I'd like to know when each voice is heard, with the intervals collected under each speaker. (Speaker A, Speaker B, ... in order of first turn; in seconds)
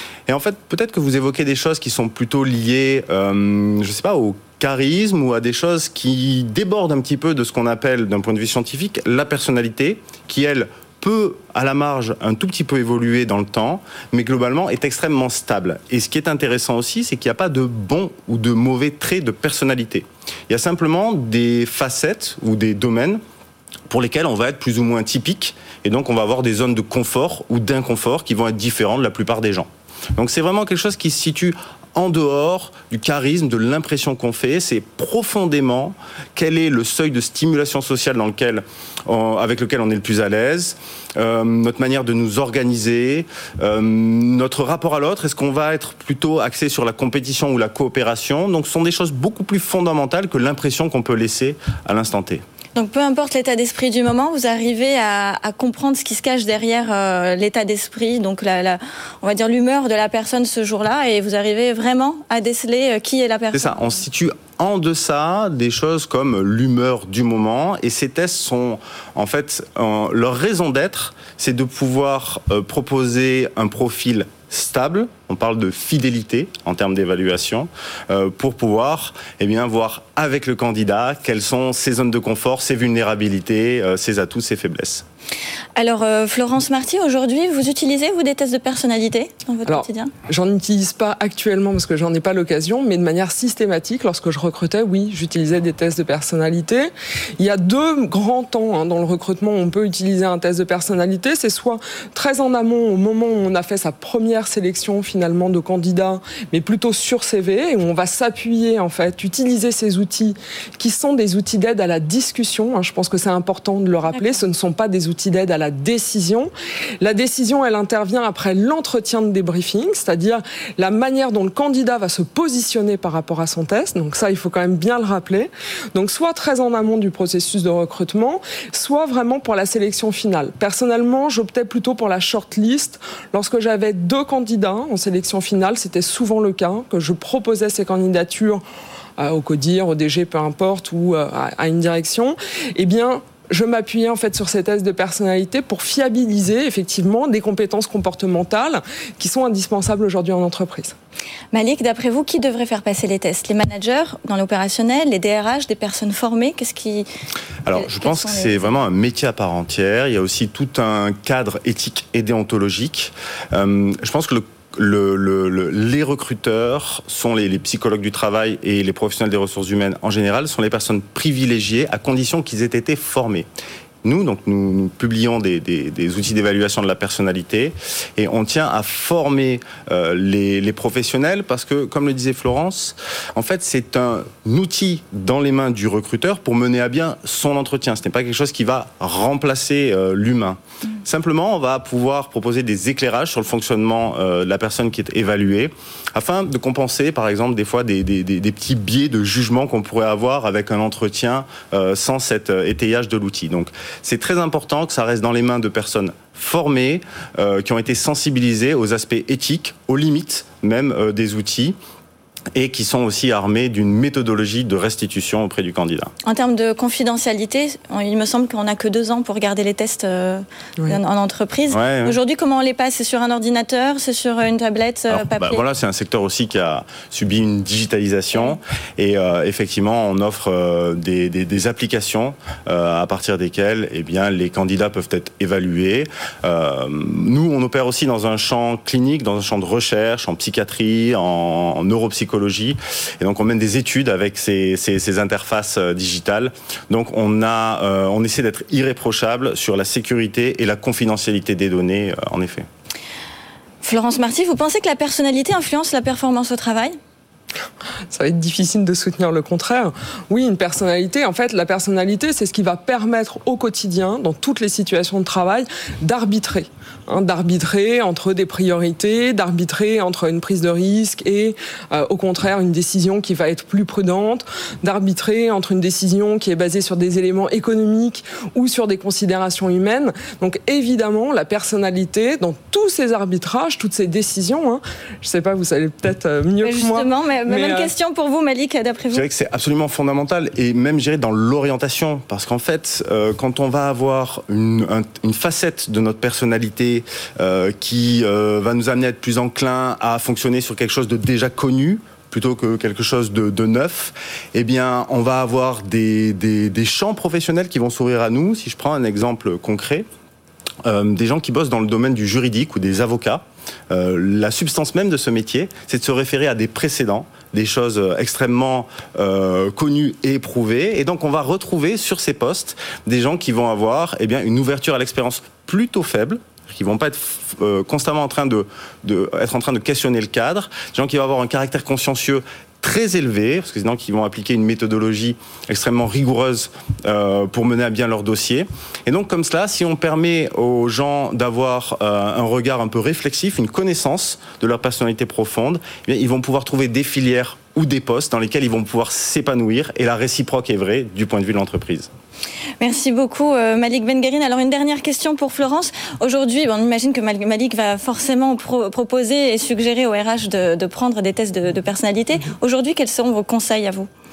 Speaker A: 0.3-23.2, 23.9-52.4, 63.5-85.0, 157.7-173.5, 174.0-211.8, 212.5-216.1, 221.7-222.2, 225.1-252.7, 289.1-310.1, 310.8-352.1
Speaker B: 52.7-63.8, 85.8-90.1, 114.1-114.4, 151.5-157.1, 157.7-158.7, 216.2-225.6, 253.8-257.0, 286.6-289.2, 352.8-364.1
Speaker C: 89.7-138.6, 139.2-150.9, 258.1-287.9